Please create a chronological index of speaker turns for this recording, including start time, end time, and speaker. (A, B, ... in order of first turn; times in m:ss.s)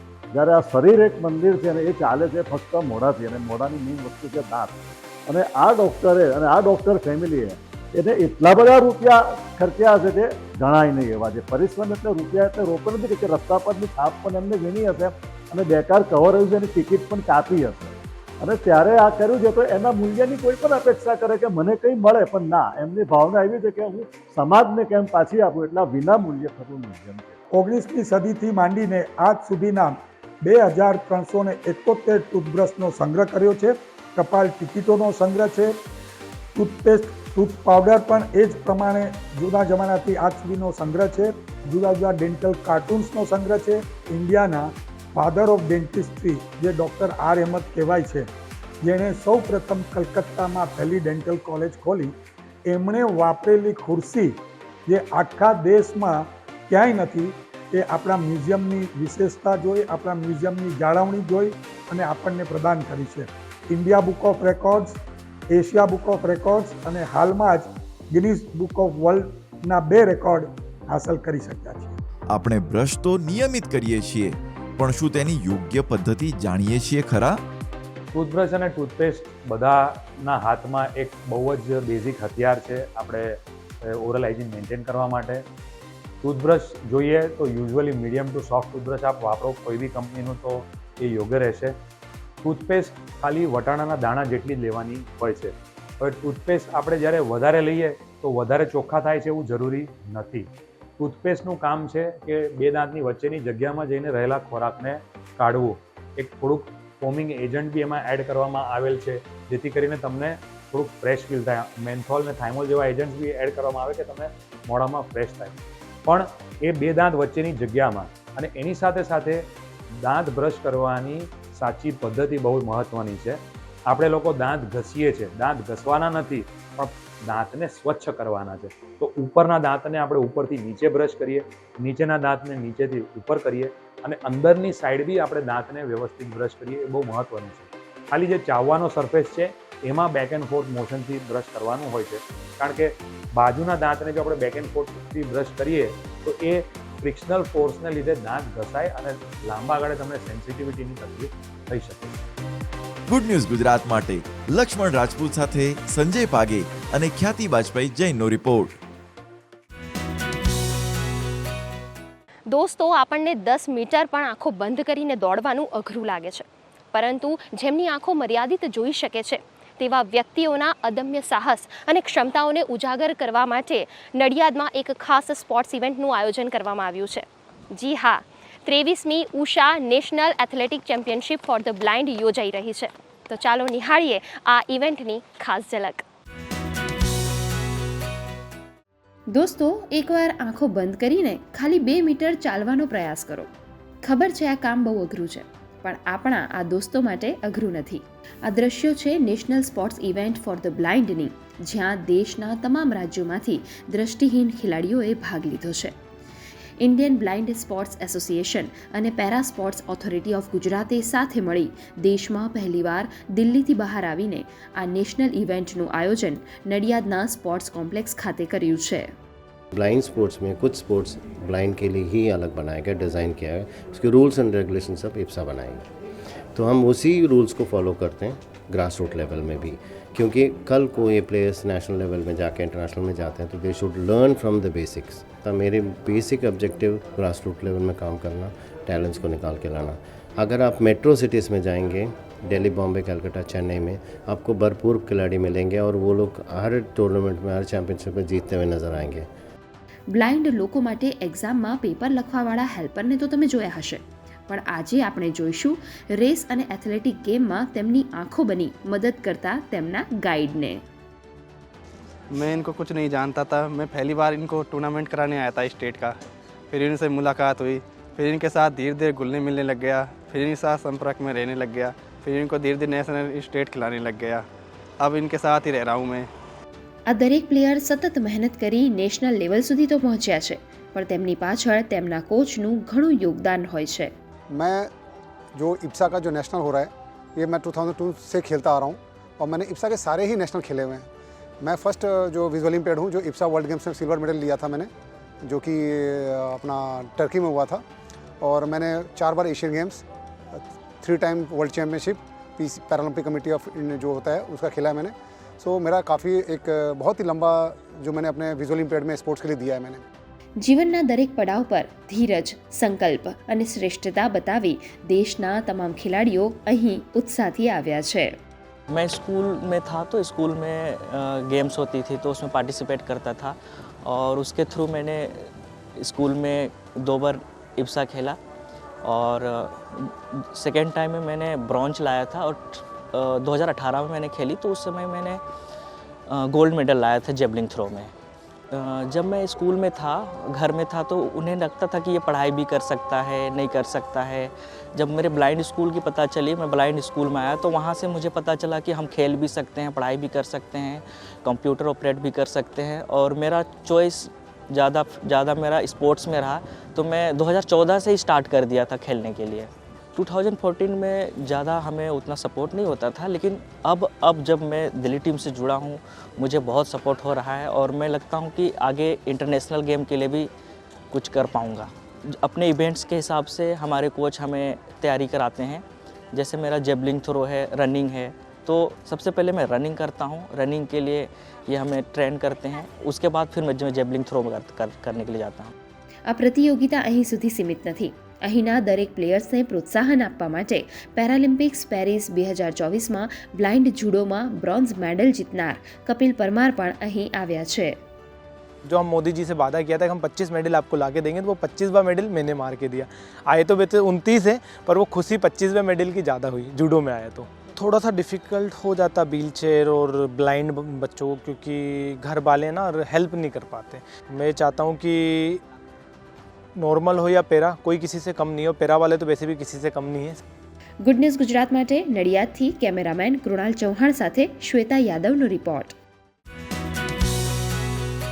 0:00.3-0:27.4 A
0:27.5-0:35.8 B
0:36.5-0:48.3 B
0:48.8-0:52.1 B
0:52.7-1:05.0 B
1:05.5-1:12.0 B
1:12.3-1:17.4 C
1:18.1-1:25.4 D
1:26.2-1:31.8 D
1:32.4-1:59.4 D
2:00.0-2:32.2 D
2:33.1-2:38.8 C
2:42.5-3:06.0 E
3:09.3-3:13.5 F
3:14.0-3:26.0 F
3:26.8-3:39.1 F
3:39.7-3:45.8 G
3:46.5-4:09.3 G
4:10.1-4:20.8 F
4:22.3-4:26.2 H
4:26.7-4:34.4 H
4:35.0-4:36.3 H
4:37.1-4:44.1 F
4:44.5-4:44.9 I
4:45.5-4:51.1 I
4:51.6-4:54.9 I
4:55.4-4:57.8 I
4:58.4-5:10.0 I
5:10.6-5:18.4 F
5:18.9-5:25.5 J
5:26.0-5:28.4 J
5:29.0-5:35.4 J
5:36.3-5:38.1 J
5:38.7-6:10.5 J
6:11.1-6:25.7 J
6:26.2-6:38.0 F
6:38.8-6:55.6 K
6:56.8-7:00.4 K
7:01.0-7:06.0 F